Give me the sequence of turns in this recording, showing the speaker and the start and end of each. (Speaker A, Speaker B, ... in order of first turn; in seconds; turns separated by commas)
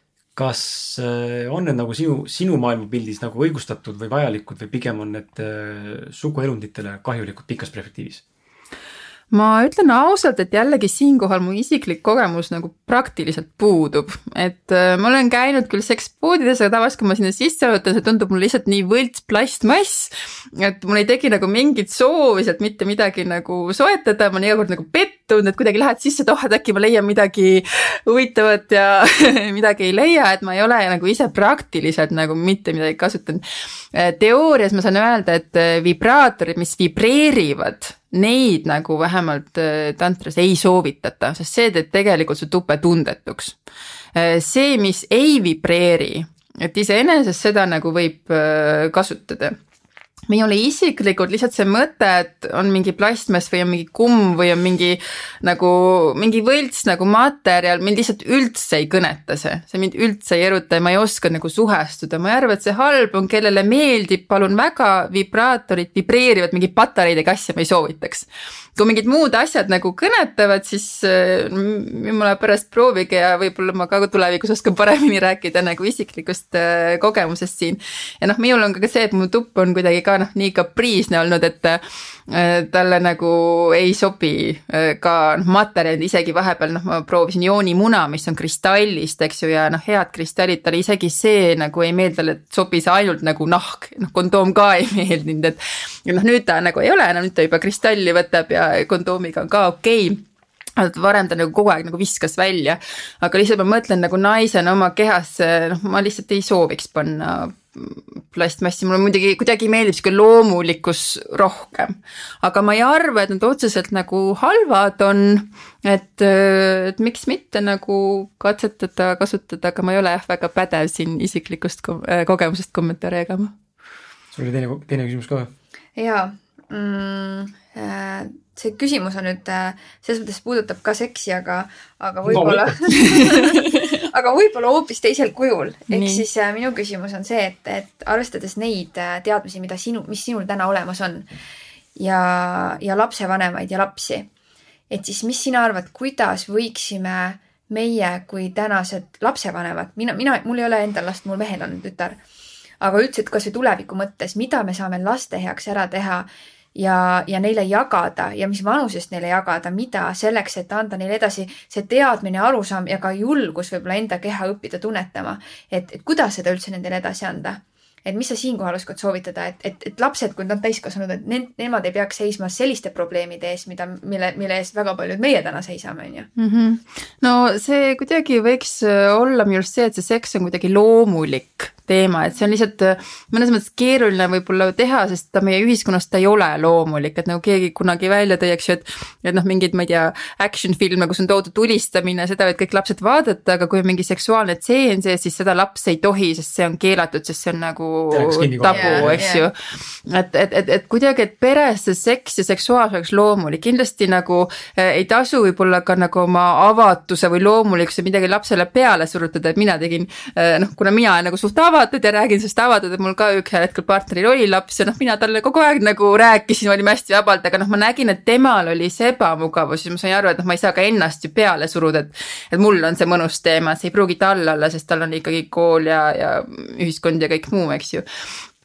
Speaker A: 0.4-8.2, Speaker B: 9.3-33.4, Speaker B: 33.9-43.6, Speaker B: 44.1-49.6, Speaker B: 50.3-100.2, Speaker B: 100.8-123.5, Speaker A: 124.3-125.5, Speaker C: 126.0-141.3, Speaker A: 132.3-132.8, Speaker B: 132.3-133.7, Speaker B: 135.9-136.2, Speaker C: 142.0-144.3, Speaker C: 144.9-152.2, Speaker C: 152.8-176.3, Speaker B: 176.4-228.0, Speaker A: 198.1-199.2, Speaker C: 198.7-199.5